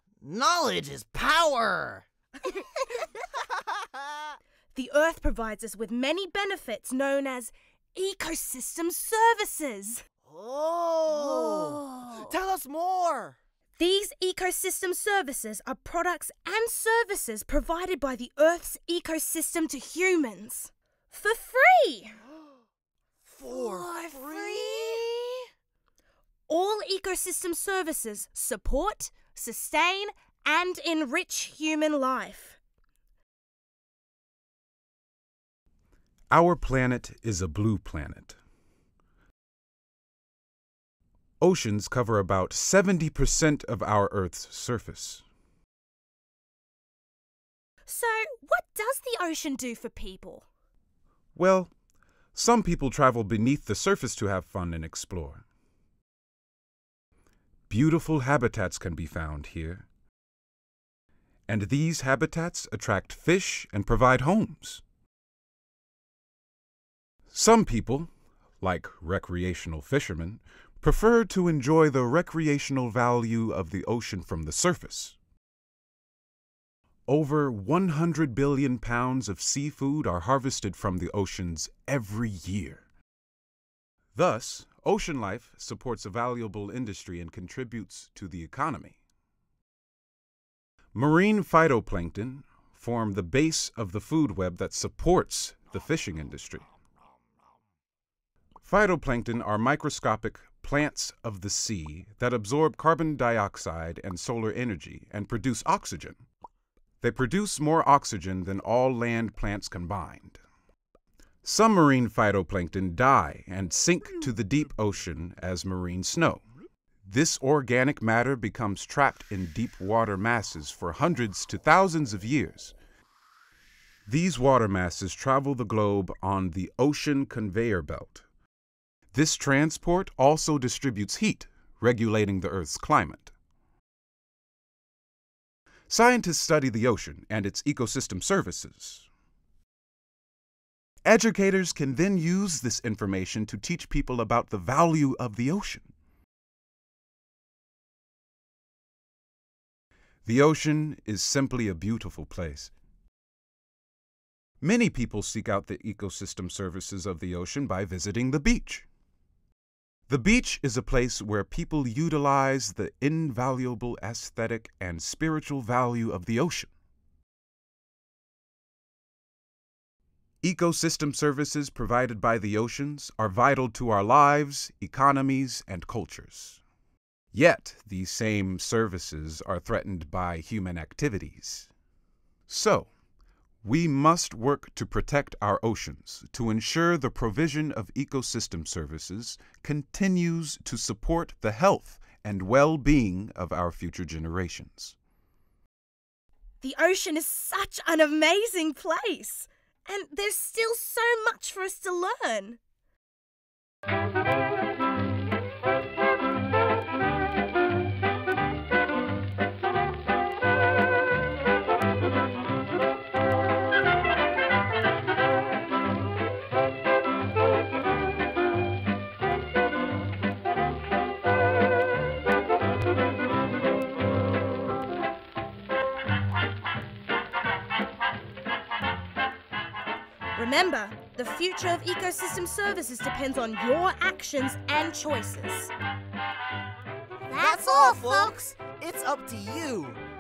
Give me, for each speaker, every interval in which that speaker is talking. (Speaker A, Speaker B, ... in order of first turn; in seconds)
Speaker A: 0.2-2.0, 3.7-4.0, 10.2-13.3, 23.2-25.4, 237.3-240.0
Speaker B: 2.4-3.1, 4.7-10.0, 11.1-12.0, 13.8-22.2, 23.5-25.0, 26.5-32.6, 47.9-50.5, 196.6-202.6, 230.3-235.7, 237.3-238.4
Speaker C: 36.3-38.4, 41.4-45.2, 51.4-51.7, 52.3-55.4, 57.7-59.9, 61.5-64.8, 67.3-68.1, 68.6-75.2, 77.1-82.8, 84.1-89.0, 90.9-96.7, 98.6-106.2, 107.0-110.4, 111.4-116.4, 117.1-122.7, 124.1-128.2, 129.1-133.3, 135.9-139.1, 141.1-145.9, 150.2-152.7, 154.6-158.8, 160.1-166.7, 170.4-176.6, 177.3-181.7, 182.5-182.9, 183.6-194.9